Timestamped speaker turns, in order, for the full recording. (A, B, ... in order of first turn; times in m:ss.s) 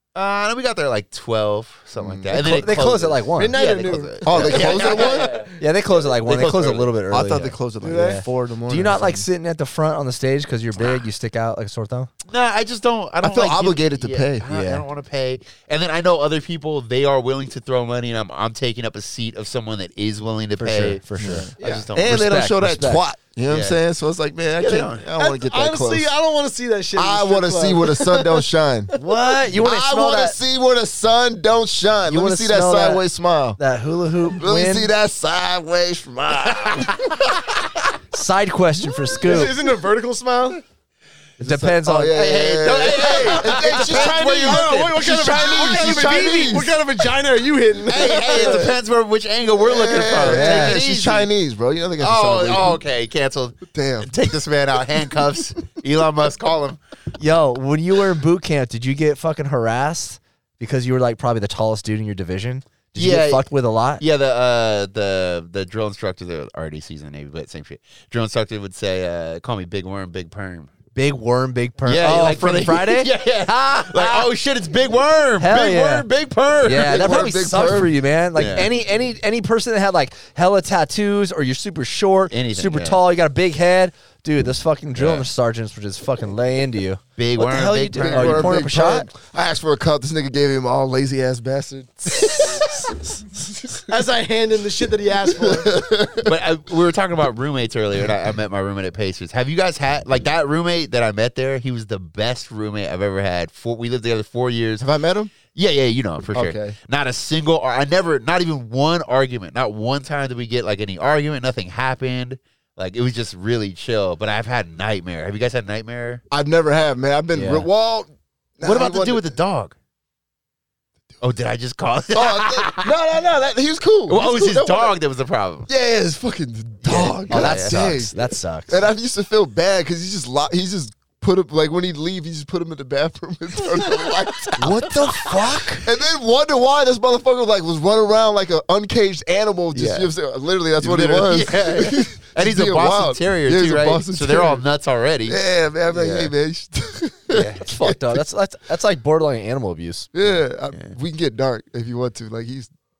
0:00.1-0:07.6 A
0:02.0-0:02.4 B
0:02.3-0:03.6 C
0:03.4-0:05.6 D
0:04.2-0:05.4 B
0:05.6-0:12.1 C
0:07.1-0:09.3 B
0:07.8-0:08.2 D
0:10.8-0:11.0 A
0:12.3-0:21.0 A
0:13.2-0:14.5 B
0:14.5-0:14.8 C
0:20.6-0:23.0 C
0:21.2-0:26.1 B
0:21.6-0:22.2 A
0:21.6-0:21.8 D
0:23.5-0:23.8 A
0:24.6-0:25.1 A
0:25.2-0:29.0 D
0:26.9-0:28.9 B
0:29.0-0:30.4 C
0:29.5-0:33.6 B
0:32.1-0:33.0 C
0:33.6-0:34.9 C
0:34.3-0:37.3 B
0:36.6-0:37.3 A
0:38.1-0:39.5 C
0:39.3-0:40.6 D
0:41.4-0:42.2 C
0:41.4-0:46.7 B
0:42.1-0:45.8 A
0:43.2-0:48.7 D
0:47.9-0:51.3 A
0:49.6-0:52.8 B
0:50.2-0:50.8 C
0:52.0-0:56.8 A
0:53.7-0:54.1 B
0:57.2-1:04.0 C
1:03.0-1:03.4 A
1:04.0-1:10.7 A
1:10.9-1:14.3 C
1:11.8-1:17.1 A
1:15.4-1:16.1 C
1:16.6-1:29.1 C
1:16.7-1:17.9 B
1:18.4-1:18.7 A
1:22.3-1:23.0 A
1:25.0-1:25.3 A
1:27.2-1:28.7 A
1:27.9-1:32.6 B
1:33.9-1:35.8 D
1:35.4-1:36.3 B
1:36.2-1:44.9 A
1:44.8-1:45.3 B
1:45.5-1:56.2 A
1:46.3-1:46.7 B
1:56.3-1:59.3 B
1:57.3-1:57.7 C
1:58.6-1:59.7 A
2:01.2-2:02.9 A
2:02.1-2:04.9 B
2:04.1-2:05.7 A
2:05.7-2:08.1 B
2:06.8-2:07.8 A
2:06.9-2:08.8 C
2:08.7-2:14.9 B
2:13.7-2:15.6 A
2:14.6-2:15.8 C
2:15.8-2:24.6 B
2:19.7-2:20.1 A
2:20.8-2:25.4 A
2:25.3-2:28.2 B
2:25.9-2:26.3 A
2:27.3-2:27.6 A
2:27.3-2:30.1 C
2:30.1-2:32.7 B